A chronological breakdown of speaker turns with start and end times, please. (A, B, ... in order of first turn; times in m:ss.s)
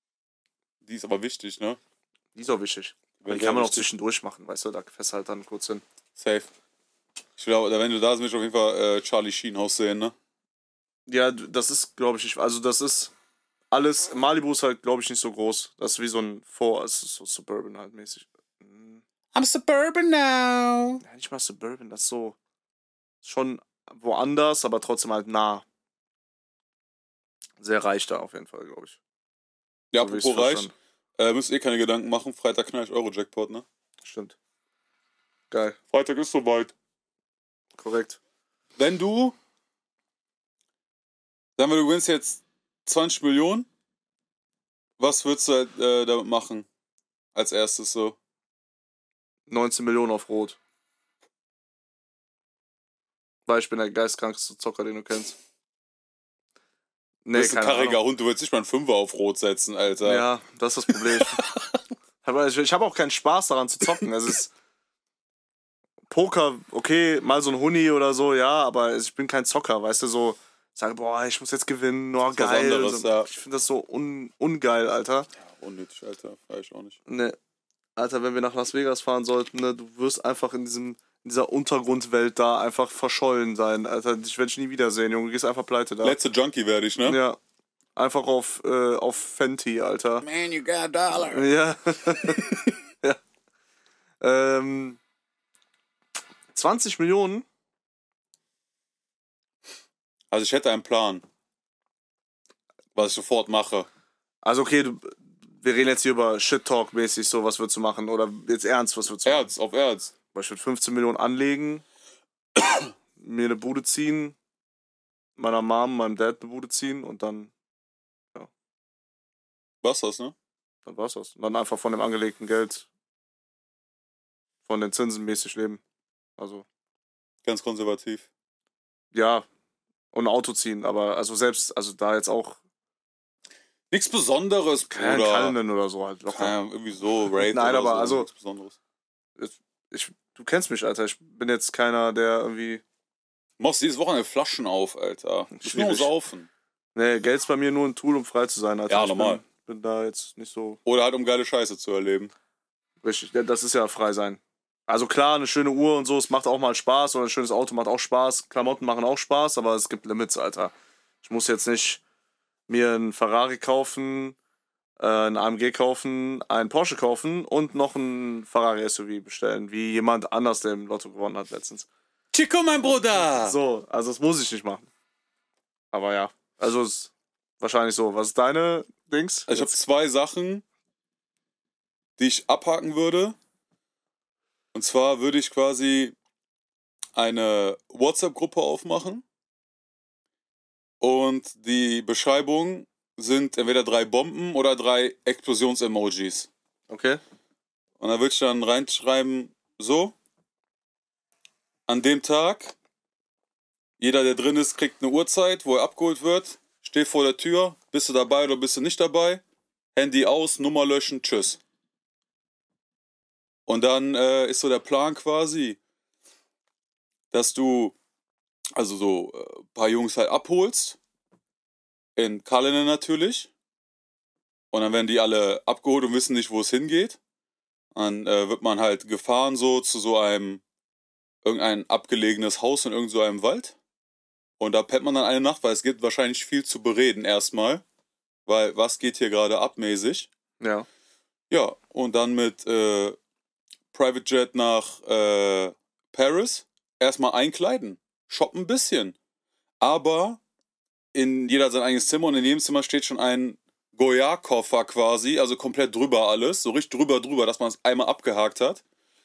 0:00.8-0:01.8 A
0:02.4-0:05.8 B
0:03.2-0:03.9 A
0:06.2-0:06.5 A
0:07.4-0:10.1 A
0:11.1-0:13.1 B
0:13.7-0:19.0 B
0:19.3-0:21.0 A
0:21.0-0:22.4 B
0:23.2-0:25.6 B
0:27.6-0:29.0 B
0:29.9-0:33.6 A
0:30.0-0:30.7 B
0:34.0-0:34.4 B
0:35.5-0:35.8 B
0:35.9-0:36.7 A
0:37.8-0:38.2 B
0:38.8-0:39.4 A
0:41.6-0:43.7 A
0:45.0-0:46.6 A
0:47.4-0:48.2 A
0:49.5-0:50.6 B
0:53.5-0:55.4 B
0:57.2-0:58.0 B
0:57.4-1:00.2 A
1:00.0-1:01.4 B
1:00.9-1:01.6 A
1:02.2-1:04.5 B
1:06.1-1:15.3 B
1:12.3-1:13.3 A
1:15.4-1:17.0 A
1:17.1-1:17.4 B
1:18.0-1:26.2 B
1:26.0-1:27.2 A
1:27.0-1:27.4 B
1:28.0-1:30.2 B
1:30.2-1:31.5 A
1:31.3-1:33.2 B
1:32.3-1:32.6 A
1:34.2-1:35.0 B
1:36.5-1:37.4 B
1:40.3-1:41.2 A
1:43.0-1:43.9 A
1:44.4-1:49.5 B
1:49.2-1:50.1 A
1:50.3-1:51.8 B
1:53.2-1:54.4 B
1:55.4-1:57.5 B
1:59.8-2:00.3 A
2:00.9-2:02.9 B
2:04.6-2:05.8 B
2:06.4-2:06.6 B
2:07.4-2:08.3 A
2:09.1-2:09.5 B
2:10.1-2:12.6 B
2:13.9-2:15.6 A
2:14.9-2:16.5 B
2:16.3-2:18.8 A
2:17.5-2:18.3 B
2:19.4-2:22.8 B
2:23.6-2:26.5 A
2:25.6-2:26.1 B
2:27.0-2:30.8 B
2:28.9-2:29.4 A
2:30.9-2:32.3 A
2:33.0-2:42.0 B
2:42.7-2:44.4 B
2:45.0-2:51.9 B
2:52.3-2:53.6 A
2:52.8-2:54.9 B
2:55.9-2:59.8 B
2:59.5-3:00.6 A
3:02.2-3:03.4 A
3:04.7-3:06.1 A
3:07.1-3:09.2 A
3:11.0-3:16.5 A
3:16.9-3:17.2 B
3:18.0-3:20.1 A
3:21.9-3:22.7 A
3:24.0-3:29.4 A
3:30.0-3:31.6 A
3:33.7-3:35.8 A
3:37.3-3:38.0 A
3:38.8-3:41.0 A
3:42.2-3:43.5 A
3:44.7-3:47.2 A
3:48.0-3:50.6 A
3:51.4-3:53.8 A
3:54.6-3:57.8 A
3:58.5-4:00.3 A
4:00.6-4:00.9 B
4:01.5-4:03.2 A
4:03.9-4:09.1 A
4:09.8-4:10.4 A
4:11.1-4:18.8 A